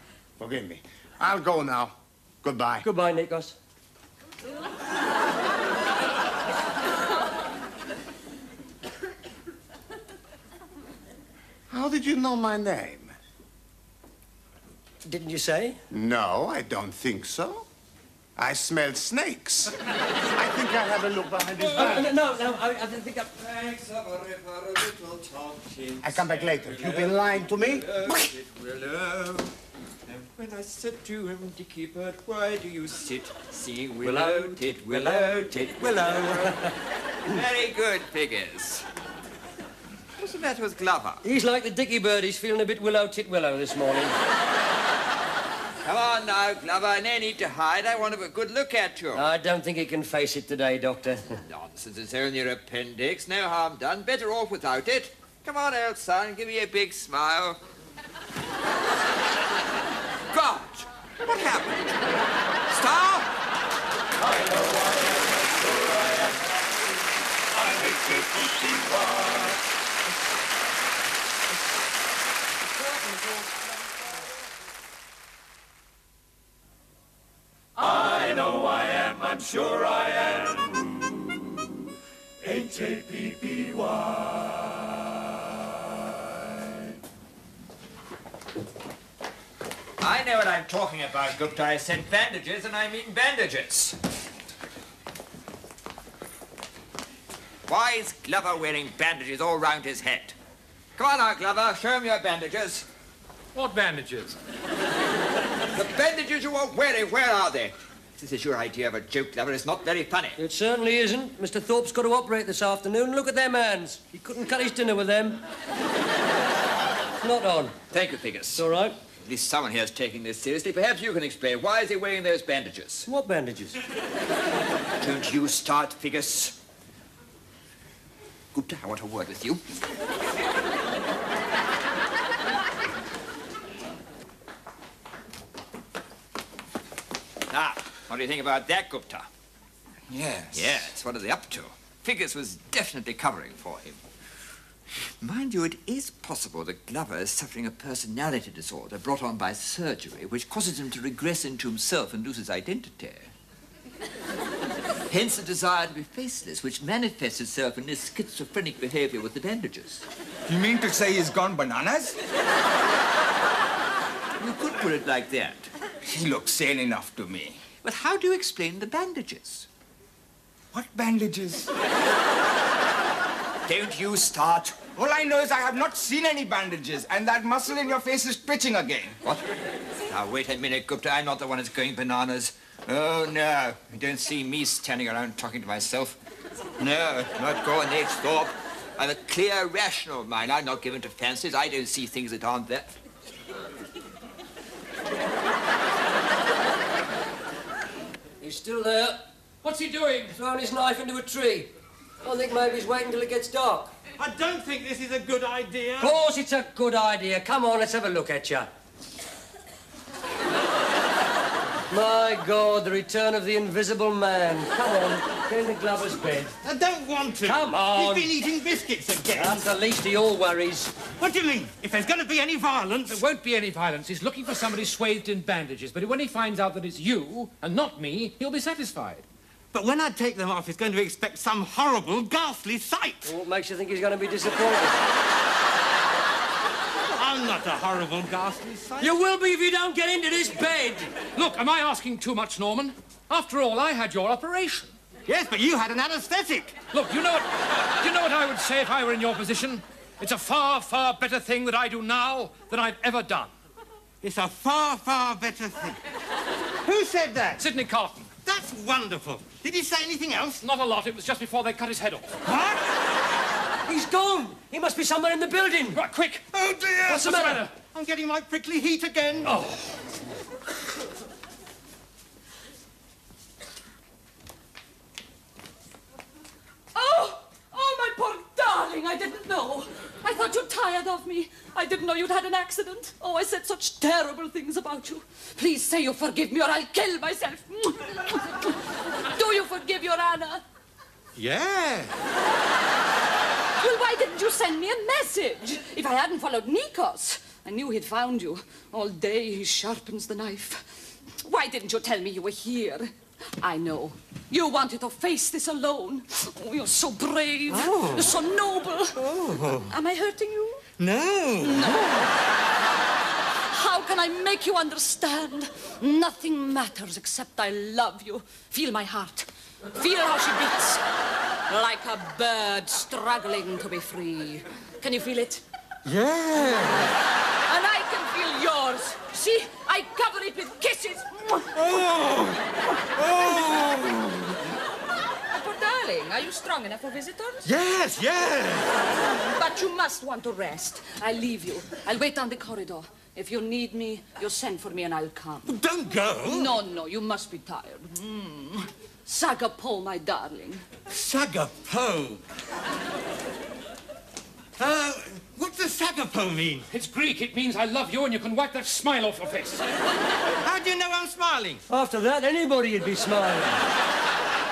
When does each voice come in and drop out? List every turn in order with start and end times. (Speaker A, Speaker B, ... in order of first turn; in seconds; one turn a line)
Speaker A: 0.4-2.9
Speaker B: 2.8-3.5
Speaker A: 11.7-13.2
Speaker B: 15.0-15.8
Speaker A: 15.9-17.7
Speaker A: 18.4-22.1
Speaker B: 21.7-23.3
Speaker C: 23.3-29.5
Speaker A: 26.0-27.9
Speaker C: 30.1-36.7
Speaker B: 34.0-36.8
Speaker C: 37.2-38.9
Speaker C: 40.2-41.2
Speaker B: 41.2-44.1
Speaker C: 45.8-49.2
Speaker B: 49.1-51.4
Speaker C: 51.5-57.6
Speaker C: 60.3-62.1
Speaker C: 62.7-63.3
Speaker D: 64.2-65.9
Speaker D: 67.6-69.5
Speaker D: 77.8-81.0
Speaker D: 82.4-84.3
Speaker C: 90.0-94.0
Speaker C: 97.7-100.3
Speaker C: 101.0-102.8
Speaker E: 103.5-104.4
Speaker C: 105.7-110.4
Speaker B: 110.4-115.4
Speaker B: 117.2-117.8
Speaker C: 117.9-118.6
Speaker B: 118.5-119.0
Speaker C: 119.2-123.1
Speaker B: 123.1-123.8
Speaker C: 125.0-126.5
Speaker C: 128.5-129.6
Speaker C: 137.5-139.3
Speaker F: 140.1-140.9
Speaker C: 140.5-144.0
Speaker C: 145.2-153.3
Speaker C: 155.1-160.0
Speaker F: 160.5-162.2
Speaker C: 164.4-165.7
Speaker F: 166.0-167.6
Speaker C: 167.8-169.7
Speaker F: 170.7-171.7
Speaker C: 173.7-174.8
Speaker F: 174.9-179.2
Speaker C: 180.1-186.2
Speaker C: 186.8-192.9
Speaker B: 198.4-199.3
Speaker E: 199.6-200.3
Speaker B: 200.3-203.9
Speaker G: 204.2-206.2
Speaker B: 206.0-208.7
Speaker B: 211.9-216.6
Speaker G: 216.6-219.7
Speaker B: 217.4-218.4
Speaker B: 219.3-221.0
Speaker G: 221.1-223.2
Speaker E: 223.1-229.2
Speaker G: 229.7-233.3
Speaker B: 233.2-235.0
Speaker G: 237.1-239.1
Speaker B: 239.0-241.2
Speaker E: 241.2-244.9
Speaker G: 245.2-246.8
Speaker E: 246.9-253.5
Speaker G: 254.2-256.0
Speaker G: 256.8-257.6
Speaker E: 257.5-258.3
Speaker G: 258.4-260.6
Speaker E: 260.6-262.4
Speaker G: 262.4-262.9
Speaker B: 263.9-266.0
Speaker E: 265.9-266.5
Speaker G: 266.5-269.6
Speaker E: 267.0-267.8
Speaker B: 267.2-267.6
Speaker E: 269.4-270.1
Speaker H: 276.9-290.6
Speaker G: 291.4-292.2
Speaker H: 293.8-300.8
Speaker H: 301.4-310.9
Speaker G: 307.7-308.4
Speaker G: 309.2-309.9
Speaker G: 311.0-312.1
Speaker H: 311.6-312.3
Speaker H: 313.7-321.0
Speaker H: 321.7-325.6
Speaker G: 326.1-327.1
Speaker H: 327.7-332.0
Speaker G: 331.7-332.6
Speaker G: 333.1-334.6
Speaker H: 335.5-337.7
Speaker G: 337.6-339.0
Speaker H: 339.2-345.8
Speaker G: 345.6-346.8
Speaker H: 346.4-350.9
Speaker G: 351.1-352.4
Speaker G: 354.8-356.9
Speaker E: 356.9-359.9
Speaker G: 360.6-361.8
Speaker B: 361.9-363.8